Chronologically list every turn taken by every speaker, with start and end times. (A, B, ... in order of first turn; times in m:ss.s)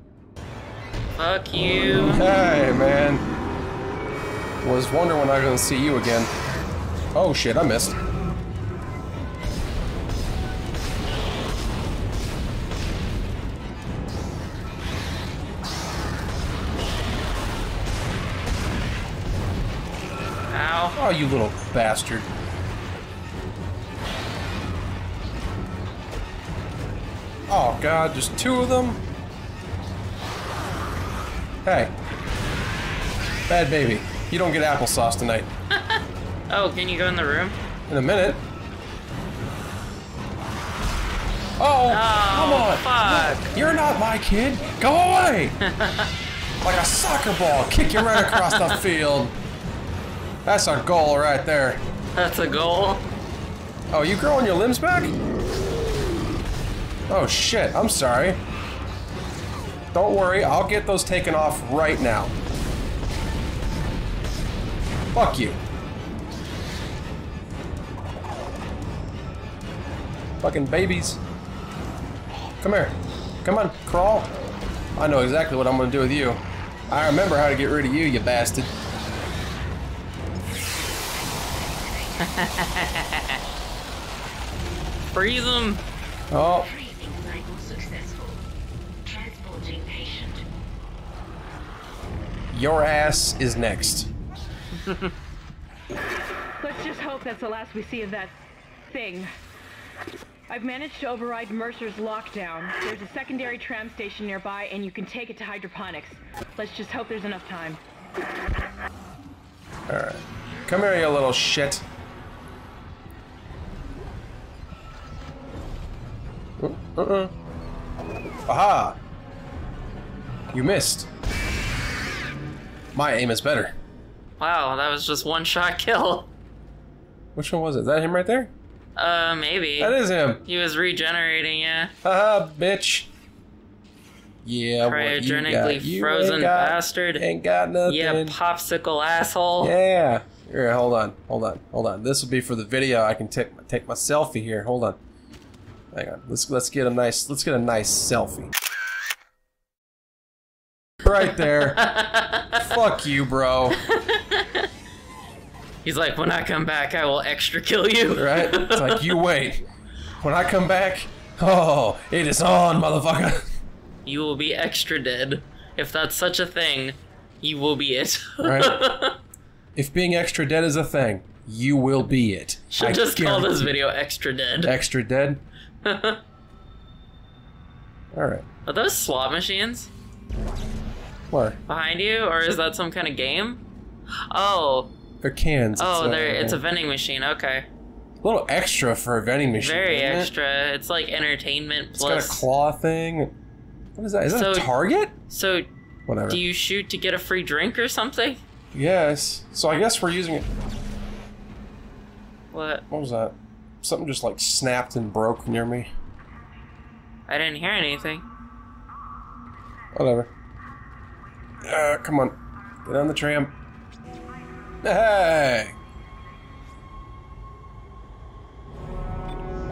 0:01.2-0:02.2 A
0:02.0-0:03.2 B
0:04.6-0:06.3 B
0:07.1-0:08.0 B
0:20.5-0:20.9 A
0:20.9-0:22.3 B
0:27.5-0:29.0 B
0:31.6-0:31.9 B
0:33.5-0:35.5 B
0:35.7-0:37.6 A
0:37.9-0:38.4 B
0:41.6-0:45.6 B
0:41.9-0:43.5 A
0:45.6-0:46.1 A
0:46.6-0:49.3 B
0:48.0-0:48.8 A
0:50.4-0:51.8 B
0:52.1-0:53.0 A
0:53.9-0:55.2 B
0:57.1-0:58.4 B
0:59.9-1:02.3 B
1:05.1-1:05.6 B
1:10.4-1:11.2 B
1:12.6-1:14.3 B
1:15.0-1:18.7 B
1:20.5-1:22.2 C
1:22.2-1:23.4 A
1:25.1-1:25.8 A
1:26.3-1:26.7 B
1:26.6-1:28.4 C
1:29.0-1:30.4 C
1:32.5-1:34.1 B
1:36.6-1:38.3 D
1:38.9-1:39.3 D
1:40.5-1:47.8 D
1:49.9-1:51.8 B
1:56.6-1:57.3 B
1:58.5-1:59.0 B
2:00.5-2:01.1 B
2:02.9-2:03.8 B
2:04.4-2:06.3 A
2:07.3-2:08.5 B
2:09.0-2:11.9 A
2:09.8-2:10.4 B
2:12.0-2:13.1 B
2:14.4-2:18.4 B
2:14.8-2:17.2 A
2:17.8-2:19.7 A
2:19.6-2:25.0 B
2:25.9-2:28.5 B
2:31.0-2:31.8 B
2:31.5-2:32.6 A
2:32.5-2:33.8 B
2:33.9-2:34.7 A
2:35.8-2:39.2 A
2:38.1-2:39.6 B
2:40.2-2:43.5 B
2:44.0-2:49.2 A
2:48.4-2:48.8 B
2:49.7-2:53.7 B
2:52.7-2:54.7 A
2:54.6-2:55.4 B
2:55.8-2:56.2 A
2:58.1-2:58.4 B
2:58.6-2:59.9 A
3:01.3-3:01.6 B
3:01.7-3:03.6 A
3:04.1-3:04.9 A
3:05.2-3:06.6 B
3:05.8-3:07.7 A
3:08.2-3:10.3 B
3:09.6-3:12.4 A
3:12.0-3:13.3 B
3:14.0-3:15.1 B
3:14.3-3:14.7 A
3:15.3-3:15.7 A
3:16.1-3:16.4 B
3:16.3-3:18.4 A
3:18.7-3:20.5 B
3:22.5-3:22.8 A
3:22.9-3:25.9 B
3:27.3-3:28.2 A
3:29.9-3:30.3 B
3:31.6-3:33.5 B
3:34.8-3:35.8 B